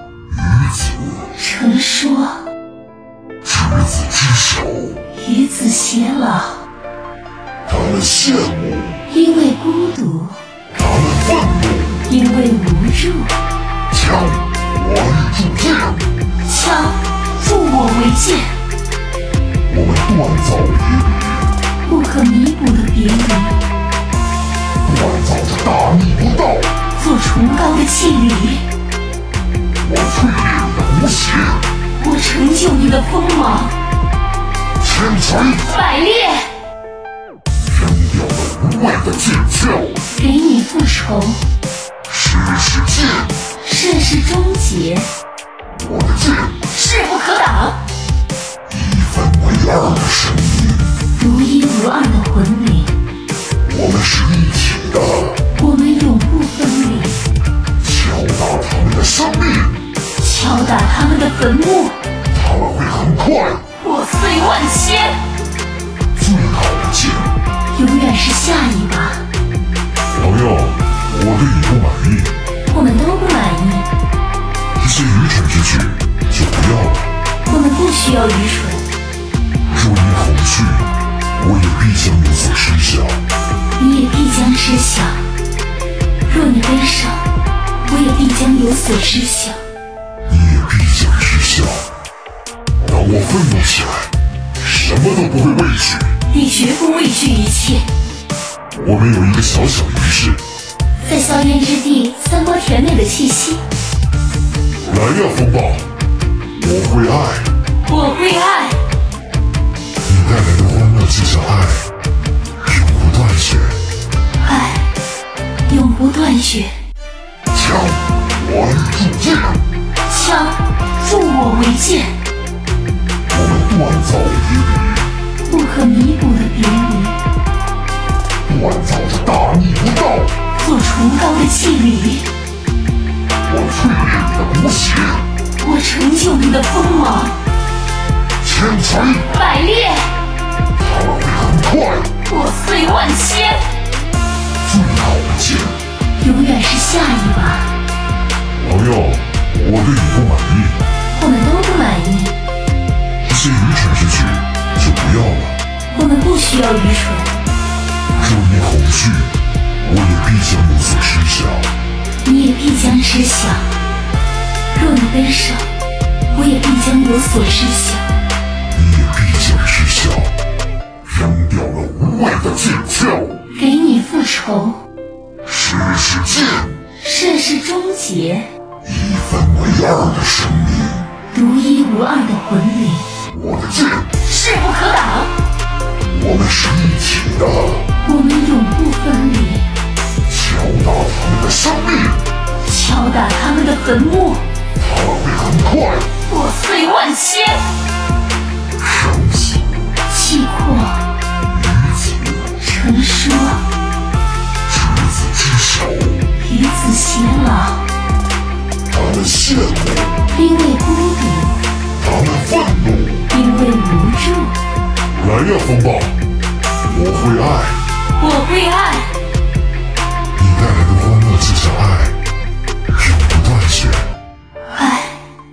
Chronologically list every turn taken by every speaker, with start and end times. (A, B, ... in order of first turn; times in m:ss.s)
0:00.3-0:01.3 A
0:01.3-0:02.4 B
0:03.4-0:05.0 A
0:05.1-0:06.6 B
0:07.6-0:09.0 A
0:09.1-0:10.4 B
0:10.7-0:12.1 A
0:12.0-0:13.3 B
0:13.9-0:16.1 A
0:16.4-0:18.5 B
0:19.7-0:21.5 A
0:21.8-0:23.6 B
0:24.8-0:26.7 A
0:26.9-0:28.6 B
0:29.8-0:31.6 A
0:31.9-0:33.7 B
0:34.8-0:35.7 A
0:35.6-0:36.5 B
0:37.6-0:40.0 A
0:40.1-0:41.4 B
0:42.1-0:43.4 A
0:43.6-0:45.1 B
0:45.7-0:46.7 A
0:46.7-0:47.8 B
0:48.7-0:50.9 A
0:51.1-0:52.9 B
0:53.6-0:55.4 A
0:55.5-0:57.2 B
0:57.8-0:59.8 A
1:00.2-1:02.0 B
1:02.3-1:03.6 A
1:03.8-1:05.2 B
1:06.1-1:07.3 A
1:07.7-1:09.2 B
1:10.1-1:12.3 A
1:12.7-1:13.9 B
1:14.8-1:17.1 A
1:17.4-1:18.8 B
1:19.7-1:23.2 A
1:23.8-1:25.2 B
1:26.2-1:27.2 B
1:27.8-1:29.6 B
1:30.2-1:31.9 A
1:32.8-1:36.1 A
1:36.3-1:37.8 B
1:38.7-1:40.4 A
1:41.0-1:43.6 B
1:44.9-1:45.9 A
1:46.6-1:47.5 A
1:47.8-1:48.8 B
1:50.0-1:51.8 A
1:52.6-1:53.8 A
1:54.4-1:54.9 B
1:55.7-1:56.7 B
1:57.5-1:59.7 A
2:00.0-2:02.1 B
2:03.3-2:05.1 A
2:05.4-2:07.2 B
2:08.4-2:10.3 A
2:10.5-2:12.3 B
2:13.4-2:15.2 A
2:15.6-2:17.4 B
2:18.4-2:19.3 A
2:19.3-2:20.1 B
2:20.7-2:22.1 A
2:22.2-2:23.6 B
2:24.6-2:25.8 A
2:26.2-2:27.7 B
2:28.6-2:30.8 A
2:31.1-2:32.3 B
2:33.2-2:35.6 A
2:35.9-2:37.3 B
2:38.2-2:41.7 A
2:42.2-2:43.7 B
2:44.7-2:45.6 B
2:46.3-2:48.1 B
2:48.7-2:50.3 A
2:51.0-2:53.4 A
2:53.5-2:54.8 B
2:55.4-2:56.8 A
2:57.0-2:58.5 B
2:58.8-3:01.1 A
3:01.3-3:03.1 B
3:03.3-3:04.2 A
3:04.2-3:05.3 B
3:06.1-3:07.8 A
3:08.0-3:09.7 B
3:10.3-3:12.2 A
3:12.6-3:14.4 B
3:14.8-3:16.1 A
3:16.2-3:17.6 B
3:18.8-3:19.9 A
3:20.1-3:21.0 B
3:21.4-3:22.5 A
3:22.6-3:23.6 B
3:24.7-3:26.2 A
3:26.4-3:27.8 B
3:28.9-3:30.2 A
3:30.3-3:31.6 B
3:32.0-3:33.3 A
3:33.3-3:34.5 B
3:35.2-3:36.2 A
3:36.8-3:37.8 A
3:38.2-3:39.1 B
3:40.4-3:42.2 A
3:42.9-3:44.0 A
3:44.7-3:45.2 B